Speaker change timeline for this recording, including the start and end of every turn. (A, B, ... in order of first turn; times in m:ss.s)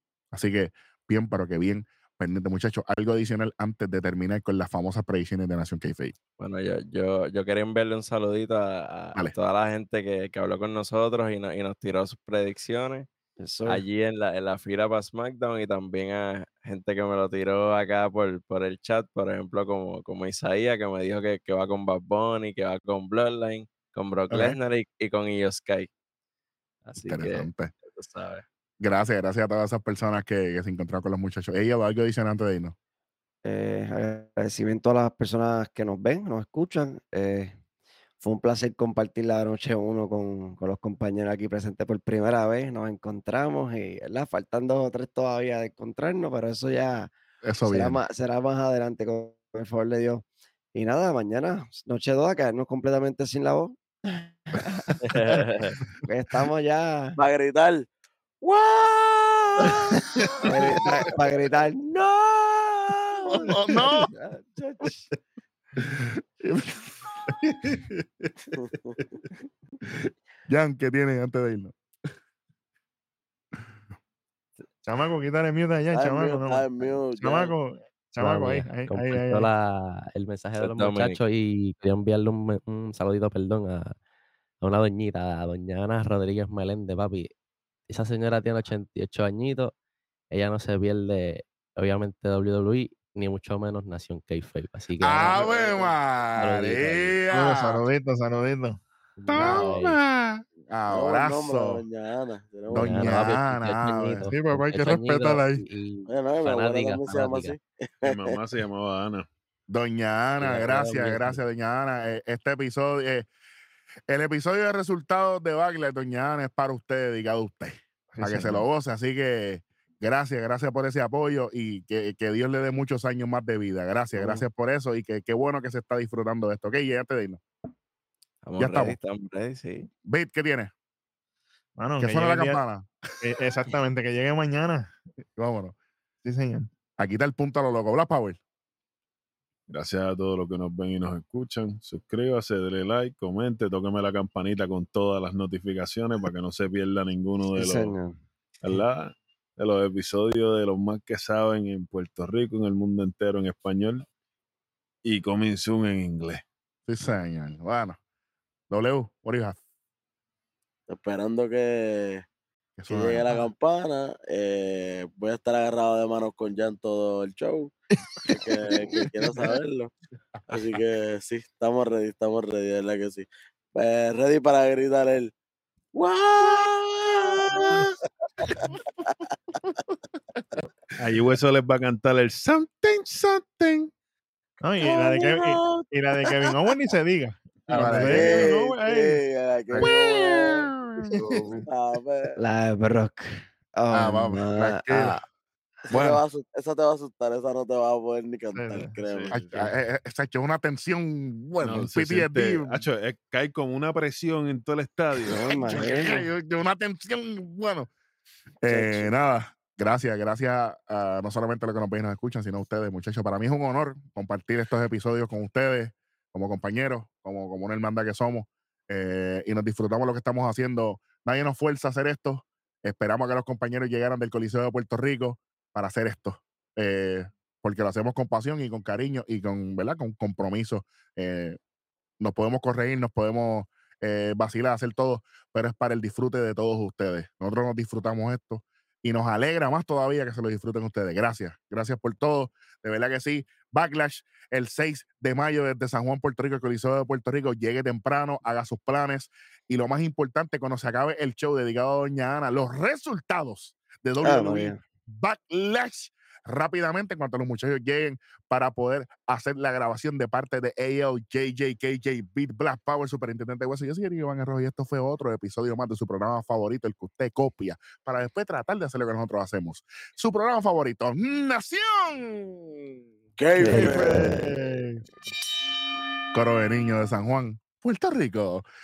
0:00.3-0:06.1 A
0:06.4-0:13.1 B
0:13.4-0:13.8 C
0:13.6-0:25.9 B
0:24.3-0:24.6 A
0:26.8-0:28.4 B
0:27.0-0:27.7 A
0:28.8-0:32.7 A
0:33.4-0:37.6 C
0:38.2-0:47.1 C
0:47.4-0:48.0 A
0:47.6-0:55.5 C
0:54.7-0:54.9 A
0:55.0-0:55.8 B
0:56.0-0:57.2 C
0:57.2-0:57.9 D
0:58.4-1:01.1 D
1:00.4-1:05.1 C
1:03.3-1:04.1 A
1:05.8-1:07.8 A
1:08.5-1:09.0 D
1:10.5-1:11.8 A
1:14.8-1:19.5 E
1:15.9-1:17.5 D
1:18.2-1:24.0 F
1:20.6-1:21.2 B
1:24.6-1:27.3 F
1:27.9-1:29.7 F
1:30.3-1:35.4 F
1:35.0-1:37.8 A
1:35.2-1:36.0 D
1:36.3-1:37.2 F
1:37.2-1:40.4 E
1:39.2-1:40.0 F
1:39.3-1:39.6 A
1:40.7-1:41.8 A
1:40.9-1:43.2 D
1:42.7-1:44.3 A
1:42.7-1:47.6 F
1:44.3-1:45.6 E
1:46.1-1:48.4 D
1:48.0-1:49.3 G
1:49.7-1:53.3 A
1:50.4-1:51.4 F
1:54.1-2:07.4 A
1:58.1-1:58.6 E
2:04.1-2:04.5 C
2:08.4-2:09.9 B
2:08.6-2:09.0 A
2:10.0-2:10.7 A
2:11.8-2:12.6 E
2:12.0-2:12.9 A
2:13.2-2:14.9 E
2:15.4-2:15.7 A
2:16.2-2:16.7 E
2:17.0-2:18.4 A
2:19.7-2:28.0 G
2:27.6-2:28.2 C
2:28.6-2:34.0 G
2:35.0-2:36.4 G
2:36.9-2:38.0 A
2:38.7-2:39.6 A
2:40.9-2:42.2 D
2:42.8-2:43.4 A
2:42.9-2:47.7 D
2:48.3-2:49.9 D
2:48.4-2:49.4 A
2:50.5-2:55.3 D
2:55.9-2:57.9 D
2:56.4-2:56.7 A
2:57.2-2:57.8 A
2:58.4-2:58.7 D
2:58.6-3:00.6 A
3:01.0-3:03.9 G
3:04.6-3:09.2 E
3:04.8-3:06.6 D
3:07.7-3:08.1 G
3:07.7-3:08.5 A
3:08.0-3:10.7 D
3:10.5-3:11.0 G
3:11.3-3:11.6 C
3:11.6-3:12.4 D
3:12.4-3:15.2 C
3:13.9-3:15.2 A
3:15.9-3:19.4 D
3:15.9-3:16.2 A
3:18.5-3:19.0 E
3:19.0-3:19.7 G
3:19.3-3:22.8 A
3:21.6-3:25.4 G
3:25.2-3:26.2 C
3:25.5-3:27.9 A
3:28.6-3:51.6 A
3:28.7-3:29.1 C
3:52.2-4:32.9 A
4:14.2-4:14.8 C
4:33.4-4:34.3 D
4:33.6-4:34.3 C
4:33.6-4:34.4 F
4:33.8-4:35.0 E
4:36.3-4:38.6 A